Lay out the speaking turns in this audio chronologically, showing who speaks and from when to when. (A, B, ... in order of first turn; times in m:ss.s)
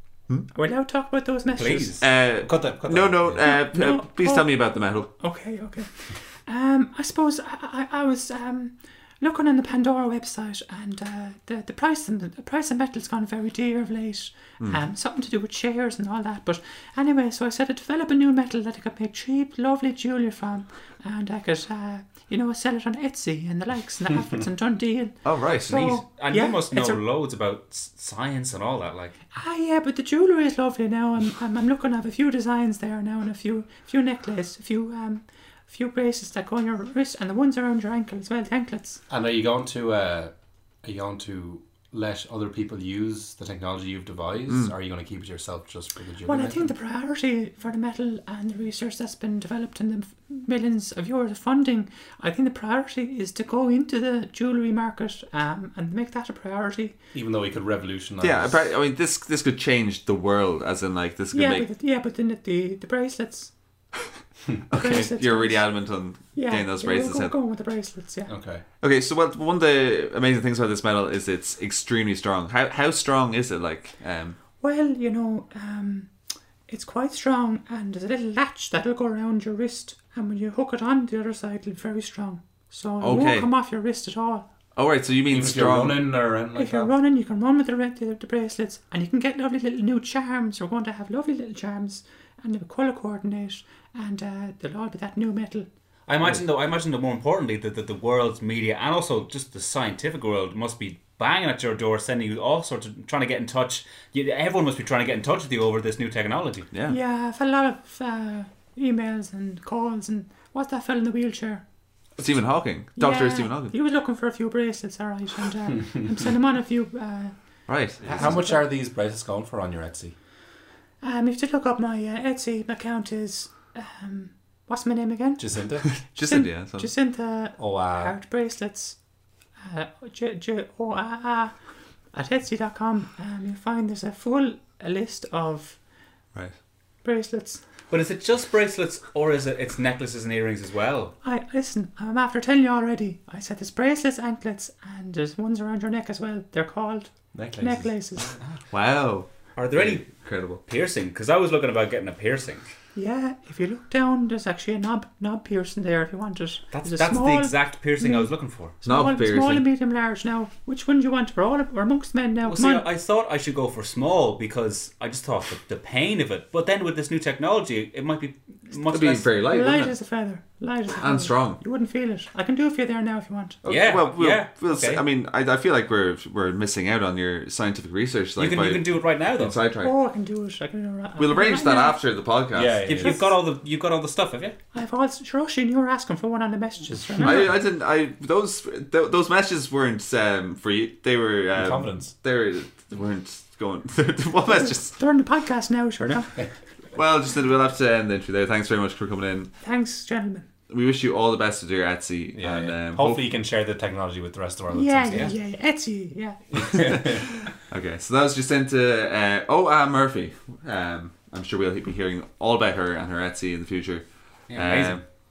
0:00.5-0:02.0 A
0:01.5-0:02.0 B
0:02.0-0:05.1 C
0:02.4-0:03.5 D
0:03.4-0:27.0 A
0:14.6-0:14.9 C
0:25.2-0:25.8 C
0:25.7-0:29.2 B
0:29.3-0:39.0 A
0:39.1-0:46.7 D
0:44.5-0:44.7 C
0:46.2-0:57.0 A
0:57.1-0:58.6 D
0:58.2-1:01.7 C
1:01.3-1:03.5 A
1:04.7-1:07.3 C
1:04.7-1:05.7 A
1:06.2-1:08.3 A
1:08.3-1:08.6 D
1:08.8-1:14.4 C
1:14.6-1:16.1 A
1:16.7-1:24.5 A
1:23.0-1:23.5 C
1:24.7-1:26.1 C
1:25.3-1:26.9 D
1:26.6-1:35.7 A
1:36.1-1:46.7 B
1:46.7-1:47.0 C
1:46.9-1:51.6 A
1:52.2-1:53.7 C
1:53.0-1:57.3 A
1:57.7-1:58.3 C
1:58.0-2:00.1 D
1:58.0-1:58.6 A
2:01.0-2:09.0 A
2:05.4-2:06.0 D
2:06.0-2:06.9 C
2:07.6-2:08.2 D
2:09.6-2:11.5 A
2:12.1-2:15.8 A
2:17.0-2:17.6 A
2:17.9-2:21.2 B
2:21.2-2:28.4 A
2:27.3-2:28.3 D
2:28.7-2:30.6 C
2:29.5-2:32.6 B
2:32.9-2:42.9 A
2:36.7-2:38.8 B
2:38.8-2:39.6 C
2:42.4-2:49.4 B
2:48.9-2:49.9 C
2:49.3-2:53.6 A
2:51.0-2:51.6 C
2:53.6-2:59.9 C
2:53.6-2:55.0 B
2:58.4-2:59.6 B
2:59.8-3:02.0 A
3:01.2-3:03.1 C
3:02.5-3:03.3 D
3:02.8-3:04.6 B
3:04.7-3:07.4 A
3:07.2-3:15.0 C
3:11.5-3:12.1 D
3:14.5-3:16.5 A
3:16.9-3:19.5 C
3:19.6-3:20.5 A
3:20.7-3:23.3 C
3:22.3-3:25.3 D
3:24.7-3:27.1 A
3:26.5-3:27.2 D
3:26.7-3:35.0 C
3:34.5-3:35.0 B